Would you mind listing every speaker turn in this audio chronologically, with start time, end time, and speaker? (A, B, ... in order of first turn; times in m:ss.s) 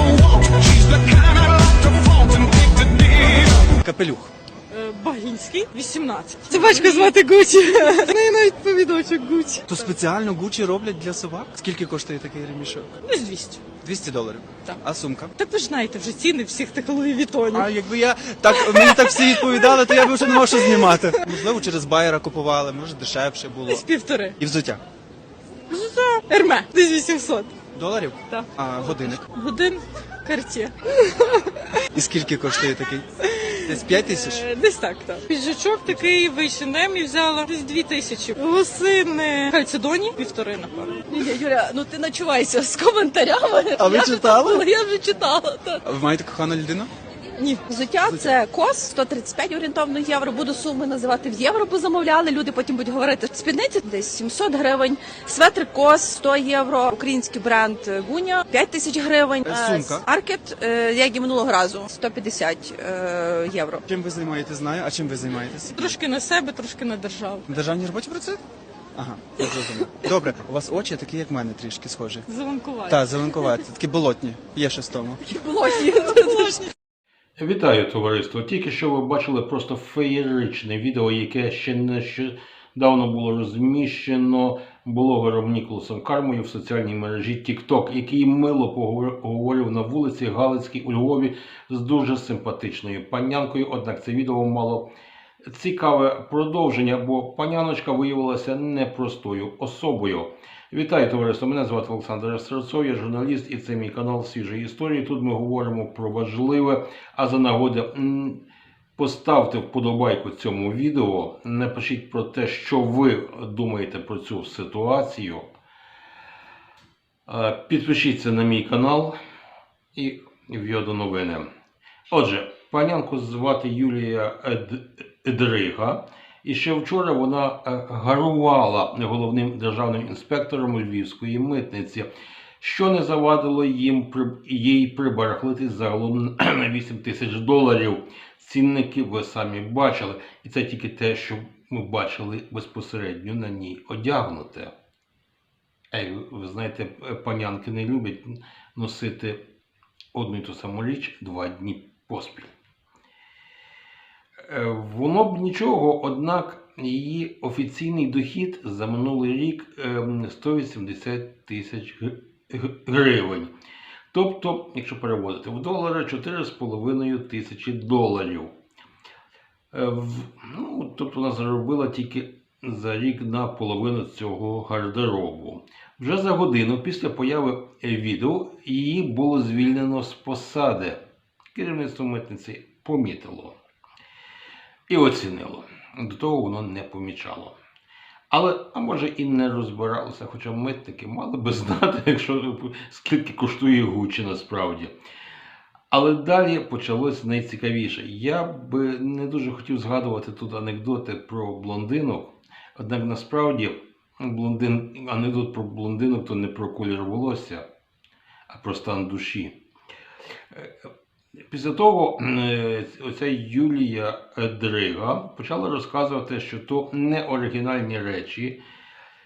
0:01.4-0:01.7 A
0:02.6-0:04.3 A
0:04.7-0:09.8 B
0:06.8-0:07.1 C
0:09.7-0:12.9 A
0:13.0-0:13.6 B
0:13.8-0:15.3 A
0:15.4-0:17.7 B
0:17.5-0:23.8 A
0:18.5-0:21.4 B
0:23.7-0:24.4 B
0:24.4-0:24.8 A
0:25.7-0:27.5 B
0:27.7-0:29.2 A
0:29.1-0:31.8 B
0:31.9-0:33.1 A
0:33.2-0:41.0 B
0:33.6-0:34.5 A
0:41.1-0:45.8 C
0:43.8-0:44.7 A
0:45.8-0:46.9 A
0:47.4-0:47.6 B
0:47.7-1:03.8 C
0:59.4-1:00.0 A
1:03.9-1:06.0 A
1:05.7-1:07.4 B
1:07.5-1:08.4 A
1:09.0-1:12.3 A
1:12.3-1:13.3 B
1:12.9-1:15.2 A
1:15.2-1:16.6 C
1:15.6-1:16.7 B
1:17.4-1:34.9 D
1:35.5-1:48.4 D
1:49.0-1:55.5 D
1:57.2-1:59.2 D
1:59.9-2:01.5 D
2:02.1-2:12.1 D
2:12.6-2:24.7 D
2:25.9-2:29.4 D
2:30.1-2:32.5 D
2:34.4-2:43.5 D
2:44.1-2:48.5 D
2:49.7-3:01.0 D
3:01.5-3:03.6 D
3:04.9-3:07.5 D
3:08.3-3:14.9 D
3:15.9-3:27.6 D
3:28.5-3:29.6 D
3:31.5-3:38.6 D